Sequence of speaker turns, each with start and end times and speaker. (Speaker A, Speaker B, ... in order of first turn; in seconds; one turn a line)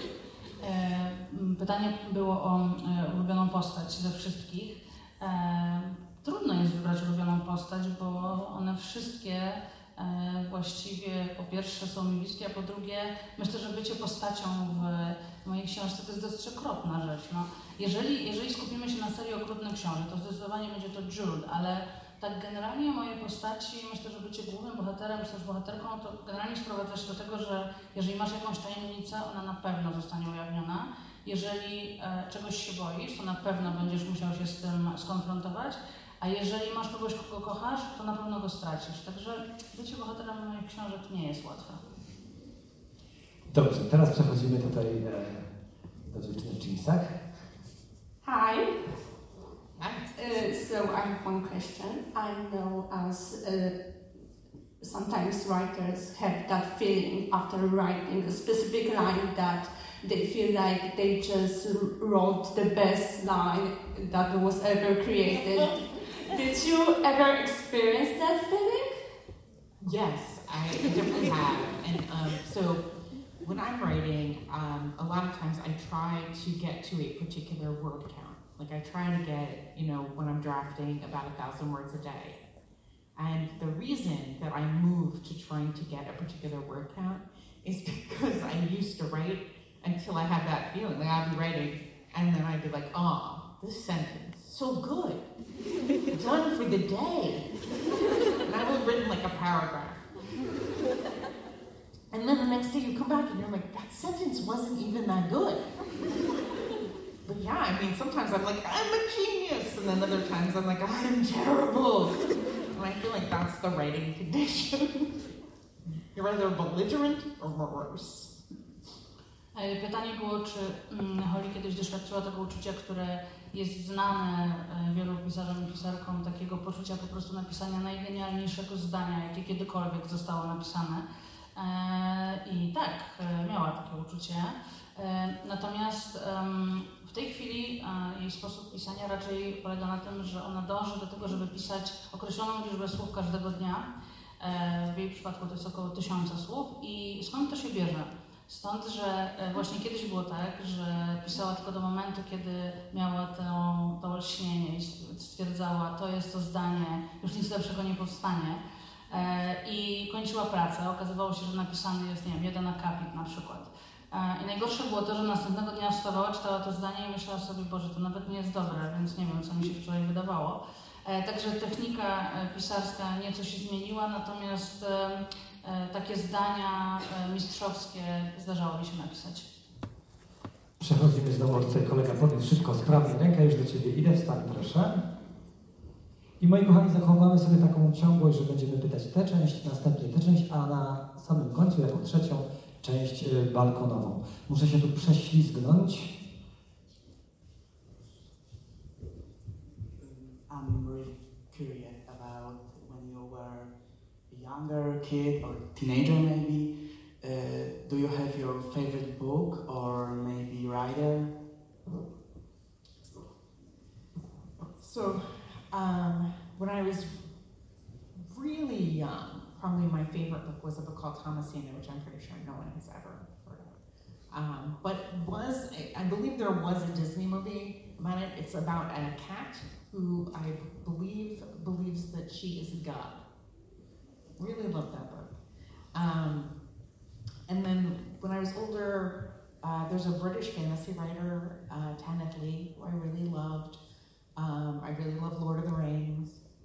Speaker A: 0.6-41.8
Speaker B: 43.5-45.5
Speaker B: 46.1-47.1
Speaker C: 48.2-48.9
Speaker D: 49.8-50.1
Speaker C: 50.1-53.8
Speaker C: 54.8-69.0
Speaker D: 69.8-72.8
Speaker D: 73.4-82.4
Speaker D: 83.2-95.2
Speaker D: 96.1-97.5
Speaker D: 98.5-100.0
Speaker D: 102.1-105.7
Speaker D: 107.2-112.2
Speaker D: 112.7-115.1
Speaker D: 116.1-118.3
Speaker A: 119.5-131.1
Speaker A: 131.6-143.9
Speaker A: 144.4-179.5
Speaker B: 180.8-185.0
Speaker B: 186.4-196.1
Speaker E: 200.0-203.7
Speaker E: 204.3-211.3
Speaker D: 214.8-217.2
Speaker D: 218.2-223.7
Speaker D: 224.3-233.2
Speaker D: 234.4-235.3
Speaker D: 235.9-236.5
Speaker D: 237.5-243.8
Speaker D: 244.4-246.4